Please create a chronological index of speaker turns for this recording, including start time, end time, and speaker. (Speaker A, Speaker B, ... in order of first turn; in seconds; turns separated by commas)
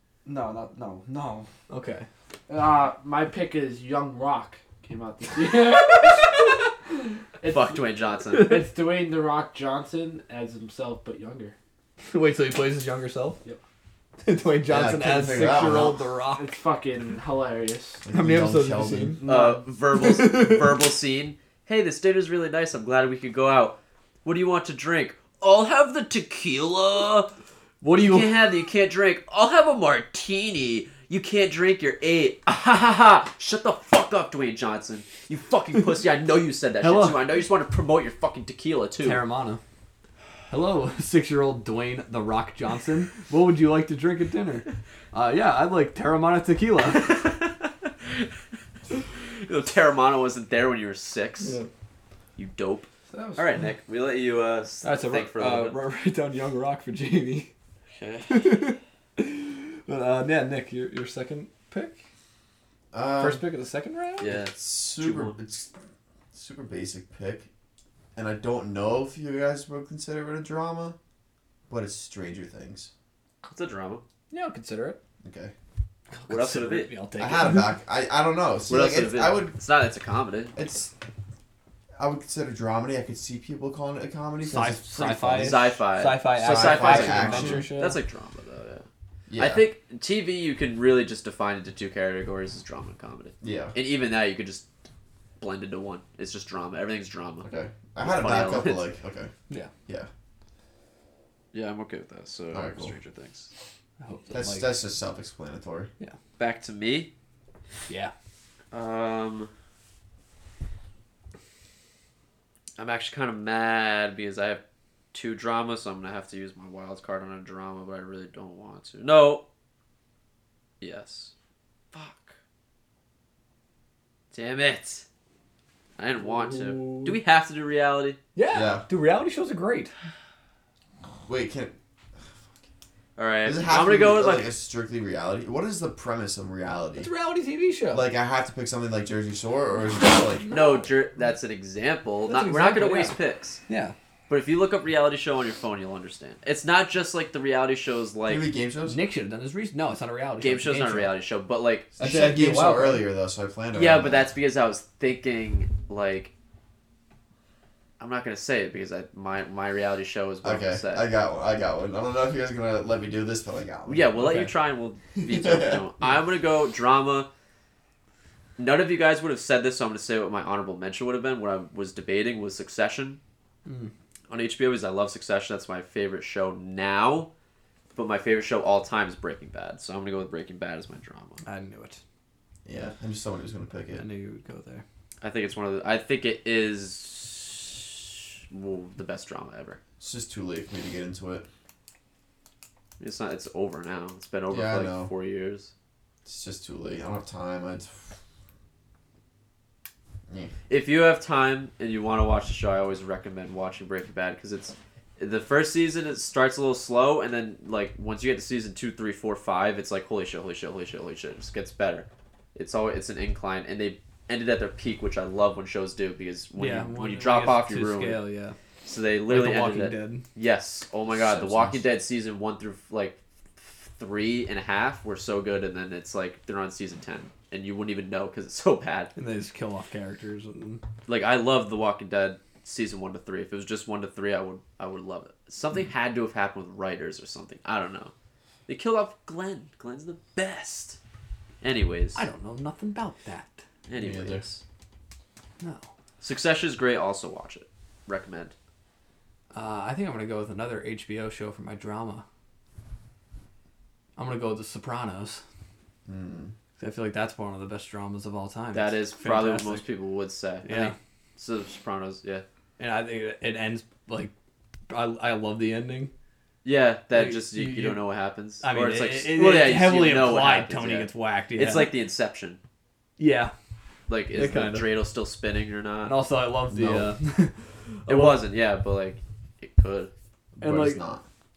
Speaker A: 0.2-1.5, Speaker B: 1.7-2.1, Speaker A: 2.5-7.8, Speaker C: 7.5-8.5, Speaker B: 8.3-8.7, Speaker A: 8.4-11.6, Speaker B: 12.1-13.4, Speaker B: 14.2-16.5, Speaker D: 14.7-16.1, Speaker A: 16.4-18.0, Speaker D: 18.1-19.2, Speaker B: 18.1-19.2, Speaker A: 19.2-19.7, Speaker C: 19.3-27.3, Speaker B: 19.9-20.8, Speaker B: 27.8-28.3, Speaker C: 28.0-39.2, Speaker B: 36.8-37.2, Speaker B: 39.0-39.6, Speaker B: 40.5-47.2, Speaker C: 46.9-48.3, Speaker C: 49.1-51.6, Speaker B: 51.4-51.7, Speaker C: 52.4-55.8, Speaker A: 53.1-53.7, Speaker B: 54.8-57.5, Speaker C: 57.9-58.7, Speaker B: 58.3-62.0, Speaker D: 62.9-63.4, Speaker B: 63.2-64.3, Speaker C: 64.2-65.4, Speaker D: 64.3-65.7, Speaker D: 66.3-67.5, Speaker D: 68.2-71.0, Speaker D: 71.7-72.9, Speaker C: 73.4-74.0, Speaker B: 74.3-75.0, Speaker D: 75.2-75.5, Speaker B: 76.1-77.7, Speaker C: 76.3-76.9, Speaker D: 77.2-79.6, Speaker C: 78.7-80.6, Speaker D: 80.5-80.9, Speaker D: 82.0-85.6, Speaker B: 84.4-88.0, Speaker C: 85.0-88.9, Speaker D: 86.4-87.7, Speaker D: 89.3-89.7, Speaker C: 89.4-94.7, Speaker D: 93.4-93.7, Speaker C: 95.4-97.5, Speaker D: 97.4-99.3, Speaker C: 98.0-98.9, Speaker C: 101.5-103.5, Speaker D: 102.5-102.9, Speaker B: 104.0-104.7, Speaker D: 104.3-105.9, Speaker C: 106.4-107.1, Speaker B: 107.9-108.1, Speaker C: 108.7-109.5, Speaker C: 112.8-114.6, Speaker C: 115.1-119.4, Speaker C: 120.8-121.3, Speaker C: 121.9-122.4, Speaker C: 124.3-125.0, Speaker C: 126.0-128.2, Speaker B: 126.2-127.2, Speaker B: 128.3-129.9, Speaker D: 128.5-128.8, Speaker D: 131.3-132.2, Speaker C: 133.2-134.5, Speaker D: 133.4-137.1, Speaker B: 137.0-138.1, Speaker D: 137.9-140.5, Speaker C: 140.5-143.6, Speaker B: 142.3-143.2, Speaker B: 143.7-143.9, Speaker C: 144.3-148.5, Speaker D: 148.3-149.0, Speaker B: 148.8-151.1, Speaker C: 150.4-151.9, Speaker B: 152.0-153.1, Speaker D: 152.0-154.3, Speaker C: 153.7-156.3, Speaker C: 158.0-161.1, Speaker D: 160.4-164.1, Speaker C: 163.9-167.3, Speaker B: 164.2-164.5, Speaker D: 165.2-165.8, Speaker C: 168.6-173.2, Speaker B: 173.7-173.9, Speaker C: 174.3-177.3, Speaker C: 177.9-181.4, Speaker B: 181.4-182.0, Speaker D: 182.7-184.0, Speaker B: 183.9-184.8, Speaker C: 185.2-189.8, Speaker D: 190.0-191.5, Speaker C: 193.0-195.7, Speaker D: 194.5-195.1, Speaker D: 196.3-198.2, Speaker C: 200.7-218.2, Speaker B: 216.6-218.6, Speaker C: 218.8-229.1, Speaker B: 219.3-220.2, Speaker D: 221.1-221.8, Speaker B: 229.2-230.8, Speaker C: 231.1-238.1, Speaker C: 238.7-241.0, Speaker C: 241.6-242.3, Speaker B: 242.2-243.6, Speaker C: 243.9-244.6, Speaker D: 244.0-244.4, Speaker B: 245.6-245.9, Speaker C: 246.2-248.6, Speaker B: 249.5-252.2, Speaker B: 254.2-255.4, Speaker D: 256.1-256.5, Speaker B: 256.8-259.8, Speaker C: 258.7-262.4, Speaker B: 260.6-260.9, Speaker B: 262.8-264.3, Speaker B: 264.9-266.1, Speaker C: 266.6-272.6, Speaker B: 267.1-268.0, Speaker B: 268.6-271.9, Speaker B: 273.2-273.5, Speaker C: 274.1-276.2, Speaker B: 274.3-274.9, Speaker B: 276.0-278.4, Speaker D: 276.7-277.1, Speaker C: 278.1-280.1, Speaker D: 280.6-281.2, Speaker B: 280.6-281.0